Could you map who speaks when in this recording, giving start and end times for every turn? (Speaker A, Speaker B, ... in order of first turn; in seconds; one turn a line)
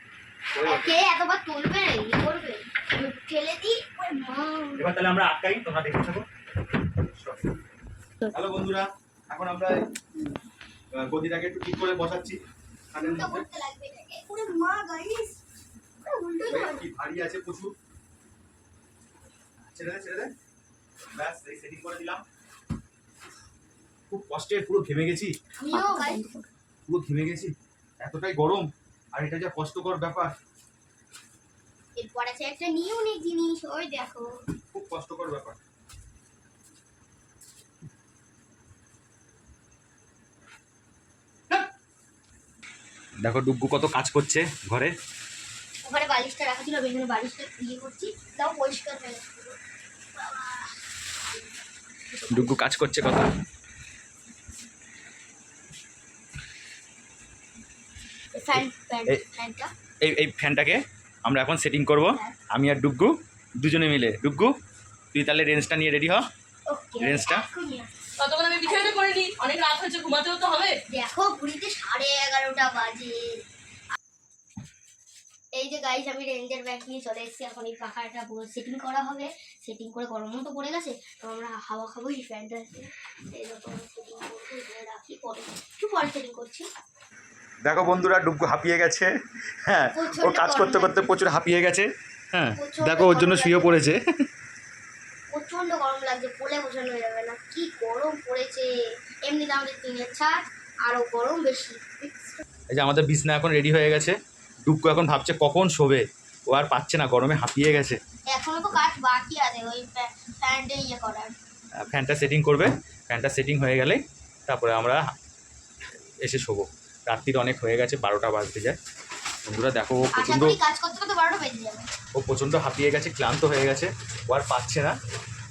Speaker A: 0.5-1.0
Speaker B: 0.6-4.8
Speaker A: 4.8-6.2
Speaker A: 7.0-7.5
Speaker A: 8.3-9.8
Speaker A: 10.9-12.4
Speaker A: 12.9-13.5
Speaker B: 13.0-15.4
Speaker B: 16.0-16.8
Speaker A: 16.4-17.7
Speaker A: 19.6-20.3
Speaker A: 21.1-22.2
Speaker A: 24.1-25.3
Speaker B: 25.6-26.2
Speaker C: 25.7-26.5
Speaker A: 26.9-30.3
Speaker B: 31.9-34.3
Speaker A: 34.7-35.6
Speaker A: 43.2-44.9
Speaker B: 45.8-49.6
Speaker B: 50.1-50.8
Speaker B: 52.1-52.7
Speaker A: 52.3-53.3
Speaker B: 58.3-59.7
Speaker A: 58.5-59.2
Speaker A: 60.0-64.5
Speaker A: 65.1-66.2
Speaker B: 66.7-67.9
Speaker A: 67.0-67.5
Speaker C: 68.2-70.8
Speaker B: 70.9-73.4
Speaker B: 75.5-86.7
Speaker A: 87.6-94.0
Speaker B: 89.9-91.2
Speaker B: 92.5-93.8
Speaker B: 95.3-102.2
Speaker A: 102.7-108.0
Speaker B: 108.3-111.3
Speaker A: 111.8-115.1
Speaker A: 116.2-118.8
Speaker A: 119.5-120.6
Speaker B: 120.1-121.9
Speaker A: 122.1-125.0